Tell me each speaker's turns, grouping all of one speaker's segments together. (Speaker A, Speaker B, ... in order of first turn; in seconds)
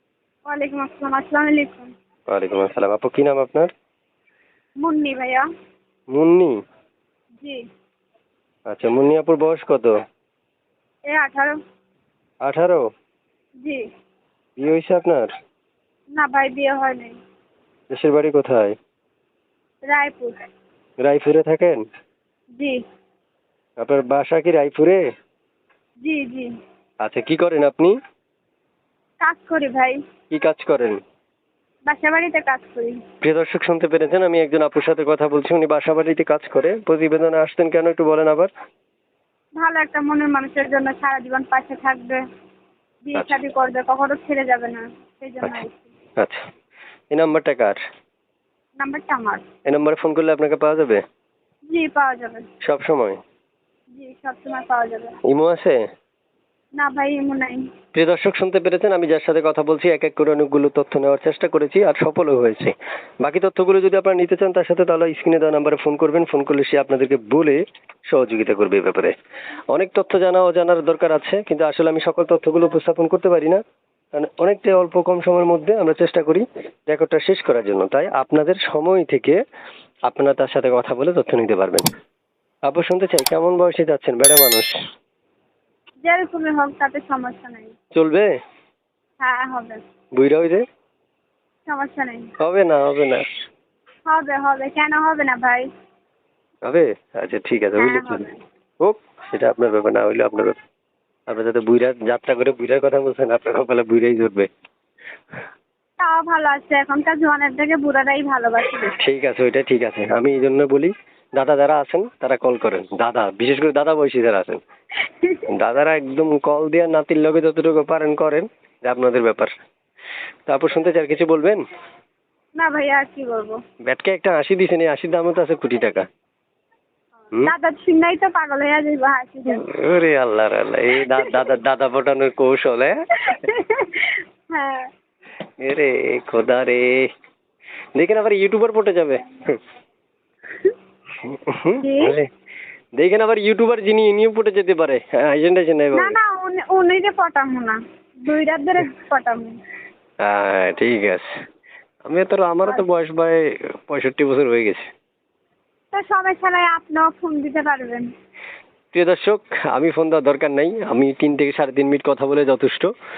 Speaker A: 0.5-1.9, 4.8-5.4, 11.1-11.5, 16.1-17.1, 19.9-20.3, 26.0-26.5, 29.2-30.0, 31.9-33.0, 39.6-42.2, 43.0-45.8, 48.8-49.5, 51.7-52.5, 53.9-55.2, 56.8-57.6, 86.0-87.7, 89.2-89.8, 91.7-92.3, 94.0-95.7, 97.8-98.4, 106.0-109.0, 122.6-123.6, 127.4-129.6, 133.3-134.9, 141.8-142.2, 145.9-149.6, 155.9-158.1
Speaker B: 2.3-3.7, 6.1-6.5, 8.7-9.9, 12.4-12.8, 14.6-15.3, 17.9-18.7, 21.0-21.8, 23.8-25.0, 27.0-27.9, 30.3-31.0, 33.2-38.5, 46.2-46.4, 47.1-47.8, 49.6-51.0, 52.6-53.2, 55.2-55.8, 57.9-69.1, 69.7-73.6, 74.1-79.4, 80.1-81.8, 82.7-84.7, 87.9-88.3, 90.2-90.6, 92.4-93.2, 96.6-98.2, 98.8-100.5, 101.3-104.5, 109.0-114.6, 115.6-119.5, 120.5-121.6, 123.8-126.0, 129.6-132.9, 135.6-137.1, 137.9-139.6, 141.2-142.2, 143.0-146.2, 150.2-151.3, 152.0-154.8, 158.9-162.9